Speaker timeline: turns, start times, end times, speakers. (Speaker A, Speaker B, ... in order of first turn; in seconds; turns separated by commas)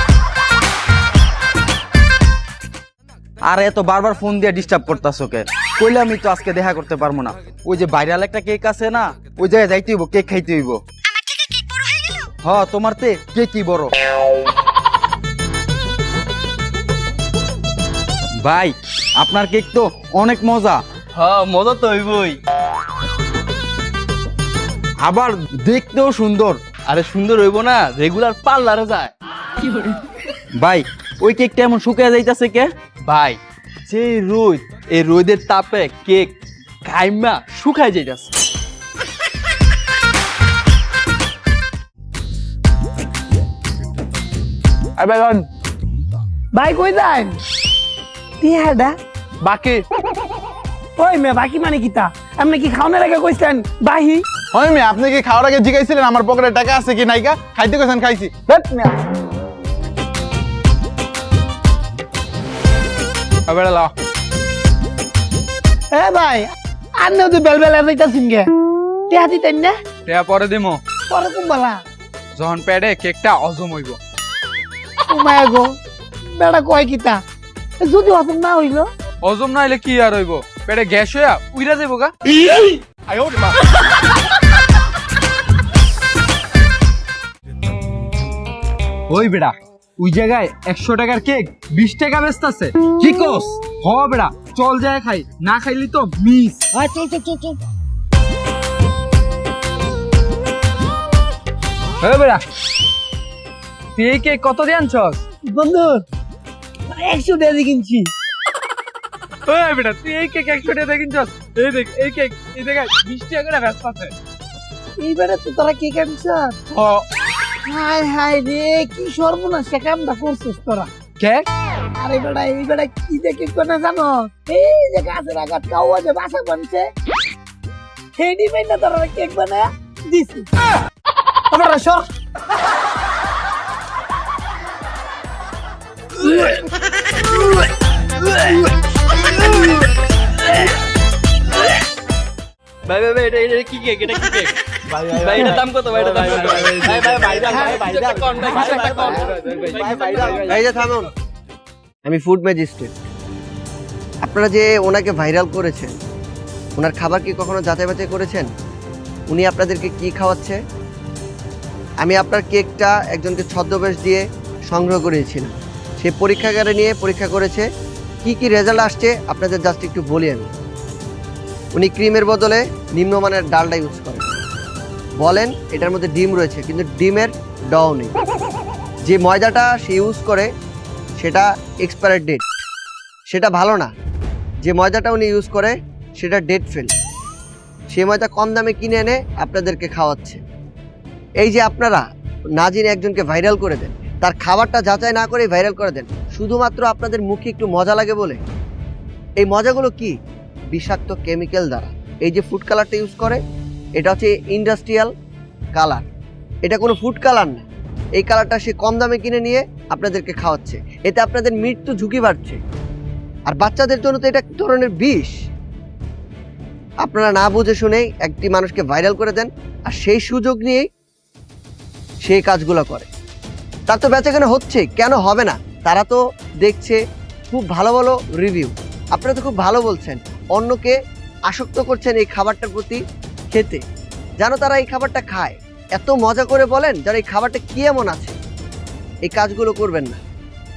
Speaker A: 3.5-10.8, Speaker A: 12.4-13.9, Speaker A: 18.4-20.8, Speaker B: 21.1-22.4, Speaker A: 25.0-26.6, Speaker B: 26.9-29.1, Speaker A: 30.6-32.7, Speaker B: 33.0-36.3, Speaker B: 36.9-38.3, Speaker C: 45.0-45.5, Speaker D: 46.5-47.4, Speaker D: 48.4-49.0, Speaker C: 49.4-49.8, Speaker D: 51.0-54.2, Speaker C: 54.5-58.9, Speaker E: 63.5-63.9, Speaker D: 65.9-68.5, Speaker D: 69.1-69.8, Speaker E: 70.1-70.8, Speaker D: 71.1-71.8, Speaker E: 72.4-74.0, Speaker D: 75.1-75.7, Speaker D: 76.3-77.2, Speaker D: 77.8-78.9, Speaker E: 79.2-82.1, Speaker E: 89.1-92.8, Speaker A: 92.9-93.6, Speaker E: 93.7-96.7, Speaker A: 96.7-97.5, Speaker E: 102.0-102.4, Speaker E: 104.0-105.2, Speaker D: 105.5-106.0, Speaker D: 106.9-108.1, Speaker E: 109.5-114.2, Speaker D: 115.0-116.6, Speaker C: 116.7-117.0, Speaker D: 117.7-120.9, Speaker E: 121.2-121.5, Speaker D: 122.0-126.9, Speaker D: 128.2-130.5, Speaker D: 131.5-132.1, Speaker D: 136.2-136.6, Speaker B: 142.9-144.6, Speaker A: 144.9-150.6, Speaker B: 145.1-150.6, Speaker D: 147.5-147.8, Speaker E: 148.4-150.0, Speaker F: 150.4-151.1, Speaker F: 152.1-152.9, Speaker F: 154.2-155.9, Speaker F: 156.8-158.5, Speaker F: 159.3-160.6, Speaker F: 162.0-167.7, Speaker F: 168.2-170.5, Speaker F: 171.7-174.4, Speaker F: 175.2-178.1, Speaker F: 179.0-180.5, Speaker F: 181.2-182.4, Speaker F: 183.3-183.9, Speaker F: 184.6-186.9, Speaker F: 187.9-190.4, Speaker F: 191.4-198.4, Speaker F: 199.4-200.2, Speaker F: 200.7-203.4, Speaker F: 204.0-205.1, Speaker F: 205.8-206.1, Speaker F: 206.6-212.6, Speaker F: 213.5-215.4, Speaker F: 217.0-220.9, Speaker F: 222.2-223.1, Speaker F: 223.9-230.9, Speaker F: 231.5-233.0, Speaker F: 233.5-233.8, Speaker F: 234.4-238.4, Speaker F: 239.2-240.2